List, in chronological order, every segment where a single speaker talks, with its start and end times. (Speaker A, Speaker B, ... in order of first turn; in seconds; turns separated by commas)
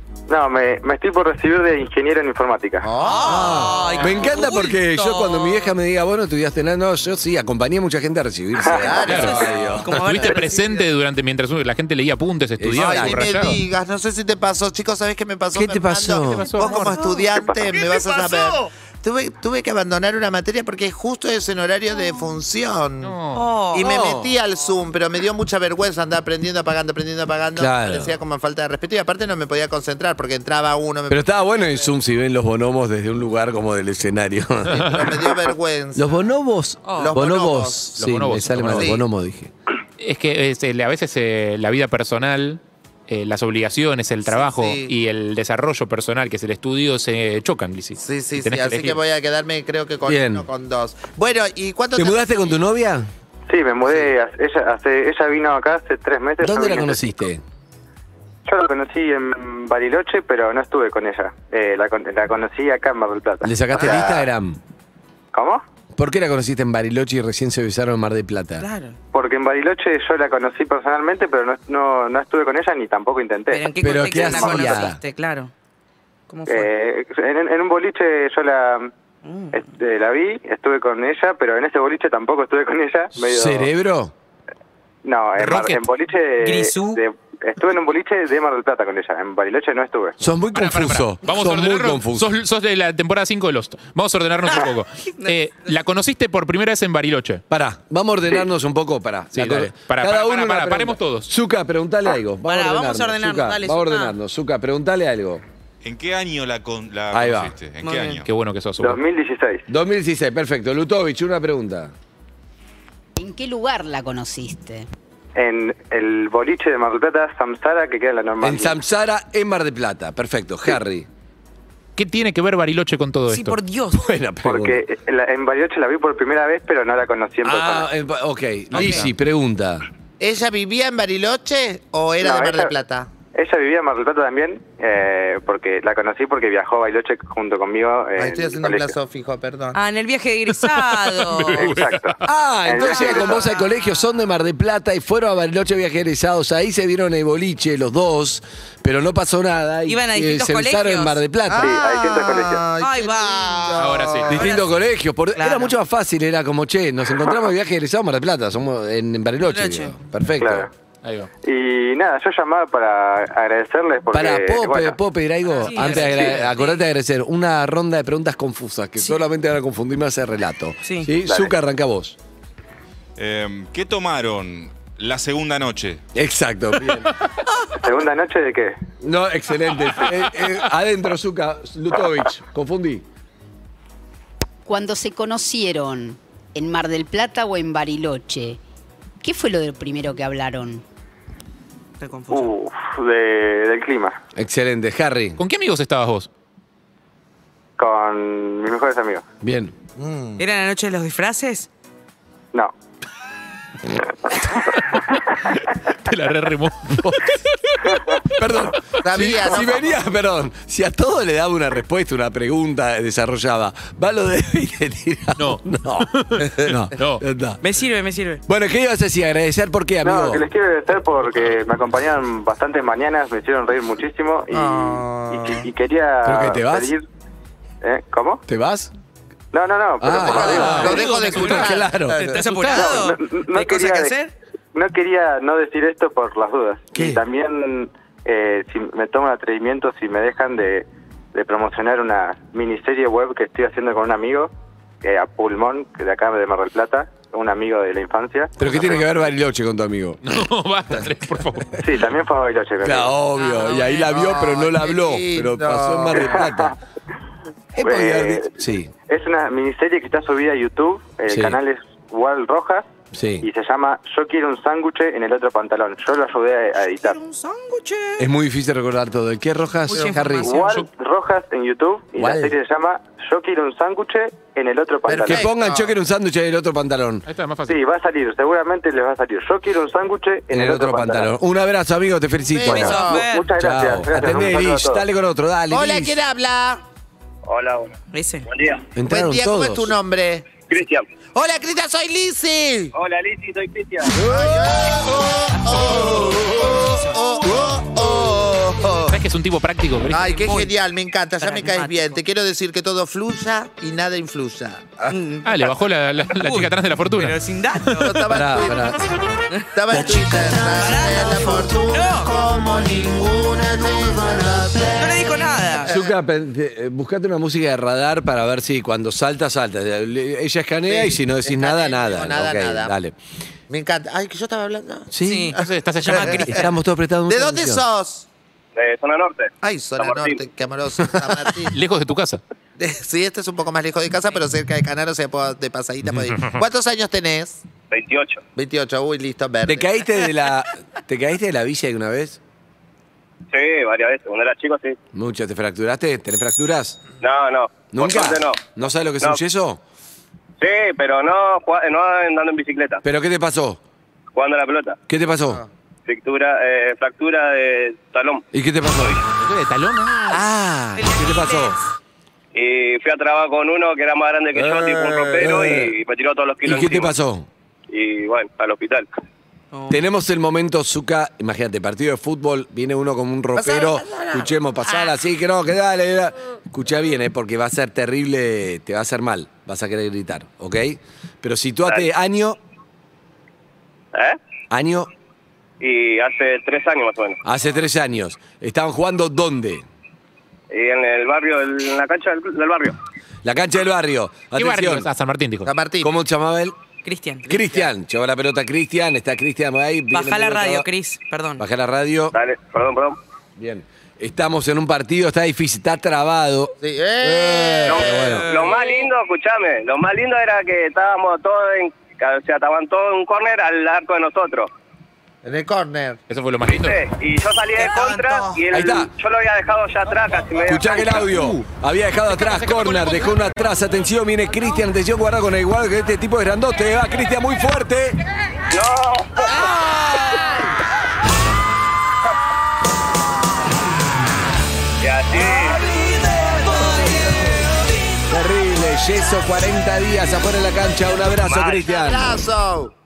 Speaker A: 0.3-2.9, Speaker B: 2.8-4.1, Speaker C: 3.0-5.7, Speaker D: 3.2-9.9, Speaker C: 8.7-10.9, Speaker B: 8.7-9.8, Speaker E: 9.0-13.6, Speaker D: 12.6-13.3, Speaker B: 12.8-23.2, Speaker D: 15.5-16.5, Speaker E: 16.2-17.0, Speaker C: 16.6-17.3, Speaker C: 17.9-18.3, Speaker E: 23.0-23.5, Speaker C: 23.3-23.9, Speaker B: 23.7-31.9, Speaker D: 23.8-24.4, Speaker D: 27.6-28.2, Speaker D: 31.1-35.0, Speaker B: 34.7-36.2, Speaker E: 34.8-35.0, Speaker D: 35.9-39.5, Speaker C: 36.8-37.2, Speaker B: 37.0-37.9, Speaker E: 38.0-39.0, Speaker B: 38.7-39.0, Speaker E: 40.0-49.0, Speaker B: 44.3-44.9, Speaker B: 48.0-52.6, Speaker D: 50.0-50.5, Speaker D: 51.9-53.1, Speaker A: 53.5-57.0, Speaker D: 56.4-57.4, Speaker A: 58.5-64.0, Speaker D: 63.4-64.6, Speaker B: 63.8-64.2, Speaker A: 65.3-65.6, Speaker D: 65.9-68.7, Speaker C: 68.6-69.0, Speaker A: 69.1-74.7, Speaker C: 73.5-75.5, Speaker D: 73.8-75.0, Speaker C: 76.3-76.7, Speaker A: 76.5-78.9, Speaker C: 79.2-79.6, Speaker A: 79.5-83.7, Speaker D: 83.2-84.1, Speaker A: 85.0-90.2, Speaker E: 85.4-85.8, Speaker C: 86.4-87.0, Speaker D: 90.2-92.3, Speaker E: 90.5-97.4, Speaker C: 95.2-95.8, Speaker D: 97.5-105.4, Speaker E: 99.3-101.3, Speaker C: 102.4-104.1, Speaker F: 105.8-108.3, Speaker D: 107.1-107.6, Speaker C: 107.8-108.2, Speaker E: 108.2-109.0, Speaker A: 108.8-109.6, Speaker D: 109.7-111.9, Speaker G: 113.2-114.9, Speaker A: 115.3-118.8, Speaker D: 118.4-121.1, Speaker E: 122.0-123.6, Speaker C: 123.3-124.0, Speaker D: 123.9-124.8, Speaker A: 124.4-127.9, Speaker D: 127.4-129.8, Speaker E: 128.7-129.1, Speaker B: 130.2-133.1, Speaker A: 132.2-132.7, Speaker A: 133.3-138.9, Speaker B: 138.2-139.8, Speaker C: 139.7-141.8, Speaker E: 140.5-142.2, Speaker A: 141.5-143.4, Speaker D: 142.2-151.7, Speaker C: 142.9-143.4, Speaker B: 142.9-143.4, Speaker C: 149.8-154.7, Speaker B: 151.6-154.4, Speaker A: 151.6-152.6, Speaker E: 153.8-154.4, Speaker D: 154.2-160.7, Speaker C: 155.3-155.7, Speaker C: 159.4-159.9, Speaker A: 160.4-160.7, Speaker E: 161.0-161.3, Speaker A: 161.4-165.0, Speaker D: 164.1-172.2, Speaker C: 165.6-166.8, Speaker E: 165.7-166.5, Speaker C: 170.8-171.1, Speaker A: 171.2-171.5, Speaker F: 173.2-176.0, Speaker D: 176.1-177.1, Speaker A: 177.7-178.8, Speaker D: 179.0-183.0, Speaker G: 184.7-188.6, Speaker G: 189.2-190.8, Speaker C: 192.0-192.5, Speaker A: 192.3-194.2, Speaker D: 194.3-195.4, Speaker E: 195.4-196.3, Speaker A: 197.8-199.2, Speaker D: 199.4-199.7, Speaker B: 200.0-200.4, Speaker C: 200.4-201.7, Speaker E: 204.8-208.3, Speaker D: 207.0-207.3, Speaker D: 208.3-217.6, Speaker B: 209.0-210.0, Speaker E: 216.1-217.2, Speaker C: 217.6-218.4, Speaker D: 218.5-220.4, Speaker A: 220.0-227.0, Speaker B: 224.5-225.7, Speaker D: 226.2-226.9, Speaker A: 227.8-228.4, Speaker D: 228.5-228.9, Speaker A: 229.5-230.9, Speaker D: 230.0-233.0, Speaker B: 230.2-232.4, Speaker C: 230.2-234.3, Speaker A: 232.7-234.1, Speaker A: 234.7-244.5, Speaker D: 236.9-237.2, Speaker A: 245.0-249.0, Speaker D: 248.6-250.2, Speaker E: 250.2-251.8, Speaker A: 251.8-253.2, Speaker D: 252.8-256.7, Speaker C: 253.3-254.1, Speaker B: 254.1-256.4, Speaker A: 256.1-256.7, Speaker D: 257.7-258.9, Speaker A: 257.8-258.5, Speaker A: 259.1-262.8, Speaker D: 261.3-261.6, Speaker D: 263.1-263.4, Speaker A: 263.4-267.2, Speaker C: 267.0-268.2, Speaker D: 268.2-270.5, Speaker C: 269.9-270.8, Speaker A: 270.4-275.5, Speaker D: 272.2-272.6, Speaker B: 275.1-275.9, Speaker D: 275.2-277.2, Speaker E: 277.3-277.8, Speaker A: 277.7-281.3, Speaker D: 280.5-286.2, Speaker B: 282.5-283.2, Speaker C: 282.6-283.5, Speaker A: 283.0-285.0, Speaker B: 285.7-286.8, Speaker H: 287.4-287.9, Speaker C: 288.1-288.4, Speaker H: 288.5-288.9, Speaker D: 288.9-289.9, Speaker B: 289.1-290.5, Speaker H: 290.7-291.1, Speaker B: 291.3-292.9, Speaker H: 292.9-294.2, Speaker B: 294.1-299.2, Speaker D: 294.2-294.7, Speaker C: 296.8-297.1, Speaker E: 299.1-300.4, Speaker B: 300.1-305.2, Speaker C: 300.3-300.7, Speaker C: 301.4-302.2, Speaker C: 305.1-305.7, Speaker E: 305.4-308.1, Speaker C: 306.3-308.2, Speaker B: 308.0-309.0, Speaker D: 308.3-309.0, Speaker C: 309.5-312.3, Speaker B: 309.7-316.1, Speaker C: 315.0-315.9, Speaker D: 315.9-323.1, Speaker B: 320.9-322.9, Speaker B: 323.7-326.6, Speaker D: 325.1-325.5, Speaker C: 325.2-326.5, Speaker E: 325.5-326.6, Speaker D: 326.3-327.8, Speaker B: 327.3-328.2, Speaker H: 328.7-330.4, Speaker B: 329.6-331.7, Speaker E: 331.7-332.4, Speaker B: 332.8-337.6, Speaker E: 336.2-336.6, Speaker H: 337.9-338.4, Speaker B: 338.6-339.9, Speaker D: 339.6-342.4, Speaker H: 343.5-345.0, Speaker D: 345.1-347.0, Speaker H: 347.2-349.4, Speaker D: 347.9-349.8, Speaker H: 350.6-353.0, Speaker D: 353.0-353.8, Speaker H: 354.3-355.0, Speaker D: 355.1-355.6, Speaker H: 356.1-358.4, Speaker D: 358.5-359.2, Speaker E: 359.4-360.4, Speaker D: 360.3-361.8, Speaker C: 361.0-361.8, Speaker H: 362.5-367.1, Speaker B: 364.5-365.9, Speaker D: 365.4-365.9, Speaker D: 366.6-367.5, Speaker H: 367.9-369.1, Speaker C: 369.7-370.0, Speaker D: 369.9-382.6, Speaker B: 373.6-374.5, Speaker H: 384.1-384.4, Speaker D: 384.7-385.1, Speaker H: 385.8-387.4, Speaker D: 387.4-389.8, Speaker H: 390.7-392.9, Speaker D: 393.4-395.1, Speaker E: 394.6-395.7, Speaker B: 395.6-396.1, Speaker D: 396.0-396.8, Speaker C: 397.0-397.8, Speaker D: 397.4-400.9, Speaker C: 400.1-401.6, Speaker D: 401.6-402.3, Speaker H: 402.3-403.2, Speaker D: 403.6-408.7, Speaker B: 406.8-408.9, Speaker H: 407.8-414.7, Speaker B: 415.4-416.2, Speaker E: 416.3-417.0, Speaker H: 416.6-421.3, Speaker B: 417.8-418.6, Speaker D: 418.7-419.1, Speaker D: 420.6-428.2, Speaker E: 421.2-421.7, Speaker E: 422.4-423.4, Speaker H: 428.7-429.6, Speaker B: 429.5-430.3, Speaker D: 429.7-430.5, Speaker H: 435.0-435.8, Speaker B: 435.3-437.7, Speaker D: 438.3-442.4, Speaker H: 441.4-441.9, Speaker B: 441.9-442.9